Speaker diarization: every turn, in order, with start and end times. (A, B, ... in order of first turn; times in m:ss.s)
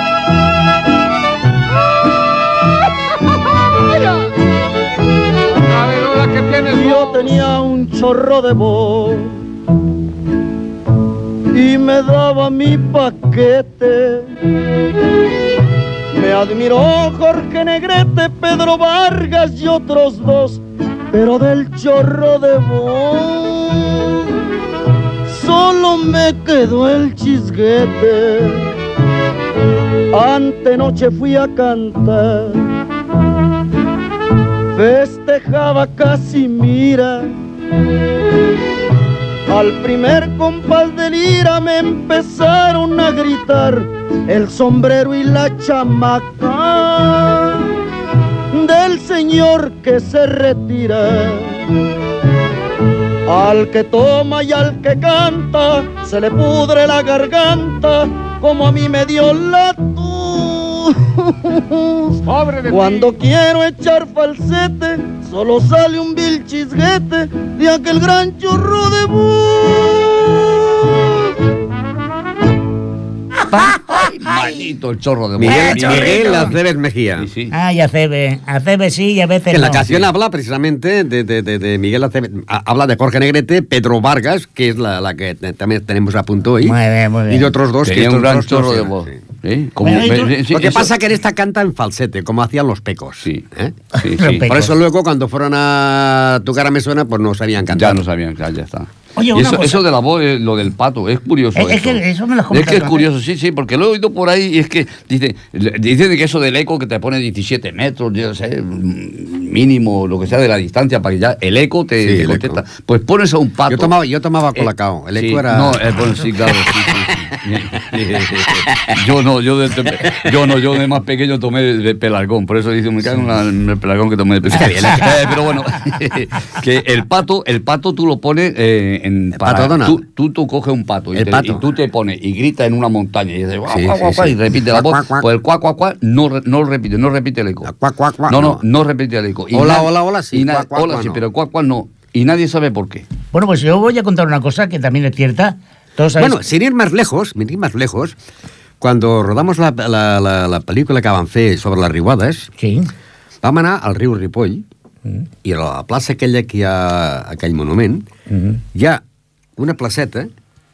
0:06.6-0:09.4 A
0:11.5-0:14.3 A
0:16.1-0:24.1 A
0:25.2-0:28.7 A
0:30.1-0:32.7 A
0:34.7-0:37.3 A
0:39.5-0:47.7 A
0:48.5-0:51.7 A
0:53.3-1:11.1 A
1:13.5-1:14.6 B
1:13.7-1:16.4 C
1:15.4-1:17.3 D
1:15.5-1:16.5 B
1:17.2-1:17.5 C
1:17.5-1:19.8 B
1:19.5-1:26.8 D
1:26.6-1:27.5 B
1:27.3-1:29.2 D
1:27.8-1:30.9 C
1:29.8-1:30.3 B
1:30.5-1:33.7 D
1:34.0-1:34.7 B
1:34.0-1:34.5 C
1:34.4-1:38.0 D
1:37.7-1:53.9 C
1:39.2-1:39.8 B
1:41.6-1:43.0 B
1:52.0-1:52.6 D
1:53.7-1:57.0 D
1:54.6-2:17.7 C
1:58.2-1:58.9 D
2:04.5-2:05.4 D
2:09.4-2:10.0 D
2:11.1-2:11.6 D
2:13.7-2:15.2 D
2:17.6-2:18.6 D
2:18.3-2:23.0 C
2:19.5-2:21.2 D
2:23.3-2:26.4 B
2:26.2-2:28.2 D
2:28.8-2:32.5 D
2:32.6-2:32.9 B
2:33.4-2:34.6 D
2:35.4-2:38.0 D
2:38.3-2:38.6 B
2:38.7-2:39.0 D
2:39.6-2:40.3 D